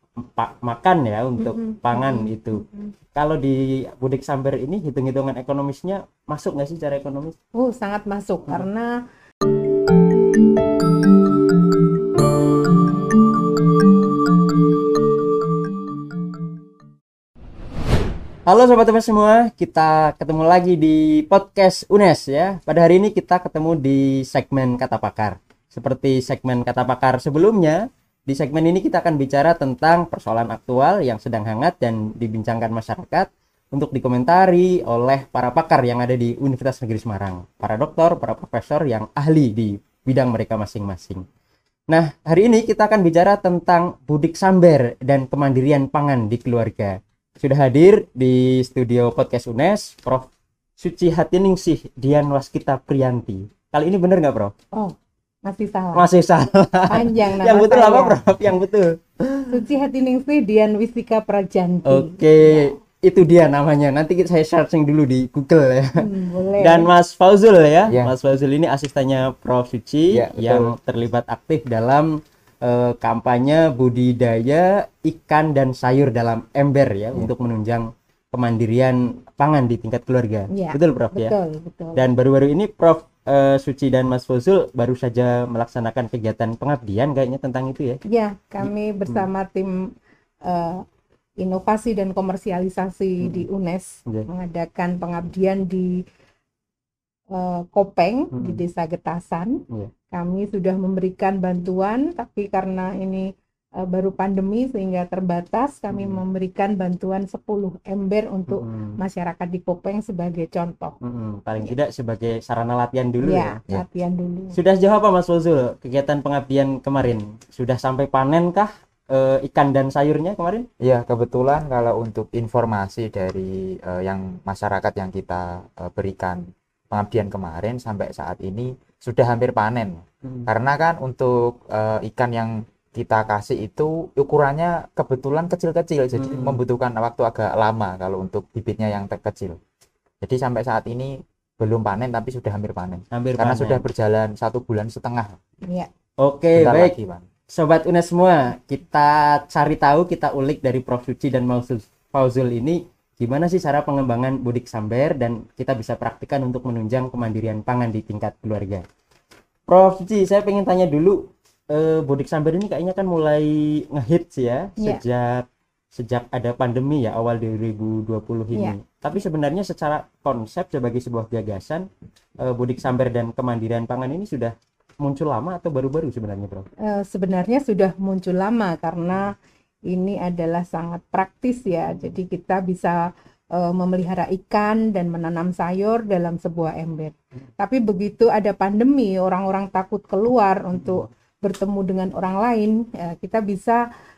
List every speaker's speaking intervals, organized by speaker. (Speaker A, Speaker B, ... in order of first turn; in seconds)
Speaker A: 0.3-2.6, 3.1-7.3, 18.5-41.2, 41.9-50.3, 50.8-54.5, 56.0-59.5, 61.9-66.0, 66.6-81.3, 82.0-88.0, 88.6-89.3, 93.2-93.5, 98.3-98.6, 105.9-106.2, 108.5-109.0, 111.0-113.6, 114.5-120.7, 136.1-136.6, 143.1-143.8, 146.2-146.9, 147.5-158.8, 159.7-171.9, 172.4-176.7, 190.8-191.1
Speaker B: 1.4-2.9, 7.5-8.9, 55.5-56.1, 56.9-58.2, 59.5-62.8, 66.0-66.9, 80.5-82.0, 88.1-89.7, 90.5-90.8, 91.4-95.9, 97.3-99.6, 100.1-103.2, 103.8-111.0, 113.2-114.6, 176.9-179.3, 179.9-183.0, 183.6-193.8
Speaker C: 67.9-68.1, 70.1-70.7, 120.8-139.6, 140.2-145.4, 146.6-147.2